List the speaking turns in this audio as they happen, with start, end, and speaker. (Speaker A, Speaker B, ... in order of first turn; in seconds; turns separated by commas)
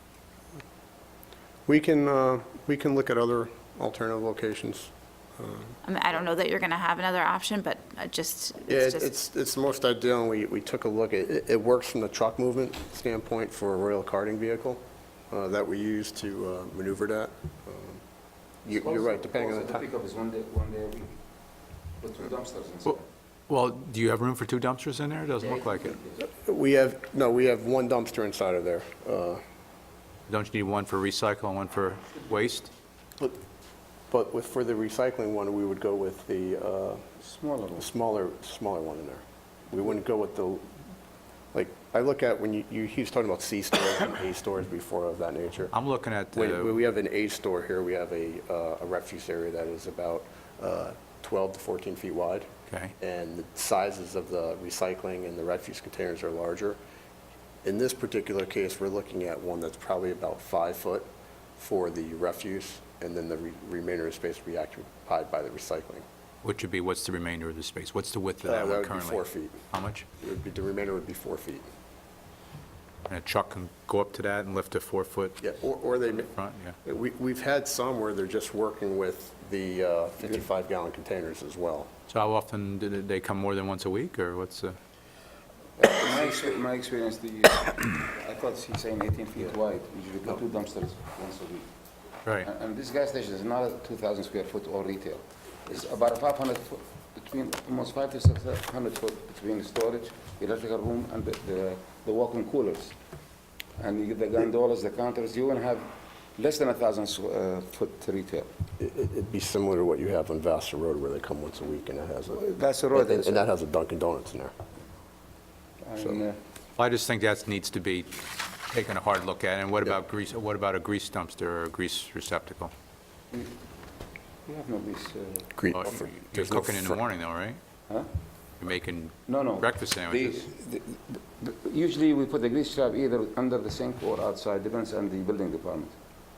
Speaker A: 1.7-5.8, Speaker B: 5.8-9.1, Speaker A: 8.7-18.0, Speaker A: 18.6-19.8, Speaker C: 18.7-21.2, Speaker C: 22.0-23.1, Speaker D: 23.5-26.0, Speaker C: 25.4-26.2, Speaker A: 26.3-29.4, Speaker D: 30.3-32.7, Speaker A: 34.1-37.0, Speaker C: 37.2-37.9, Speaker A: 37.8-40.6, Speaker A: 41.5-45.7, Speaker D: 45.7-46.7, Speaker A: 46.3-52.5, Speaker A: 53.0-56.8, Speaker A: 57.6-66.0, Speaker D: 66.4-70.0, Speaker A: 68.4-69.6, Speaker A: 70.2-71.7, Speaker D: 73.1-75.4, Speaker A: 75.4-76.3, Speaker D: 76.3-76.8, Speaker A: 76.8-81.9, Speaker D: 82.1-84.8, Speaker C: 85.8-91.7, Speaker C: 92.4-102.9, Speaker C: 103.8-108.5, Speaker A: 108.8-114.5, Speaker C: 112.3-113.5, Speaker C: 115.8-116.4, Speaker D: 116.8-118.1, Speaker D: 118.7-122.7, Speaker C: 124.5-125.5, Speaker A: 125.5-127.0, Speaker D: 125.7-127.6, Speaker D: 128.6-130.4, Speaker C: 129.3-135.9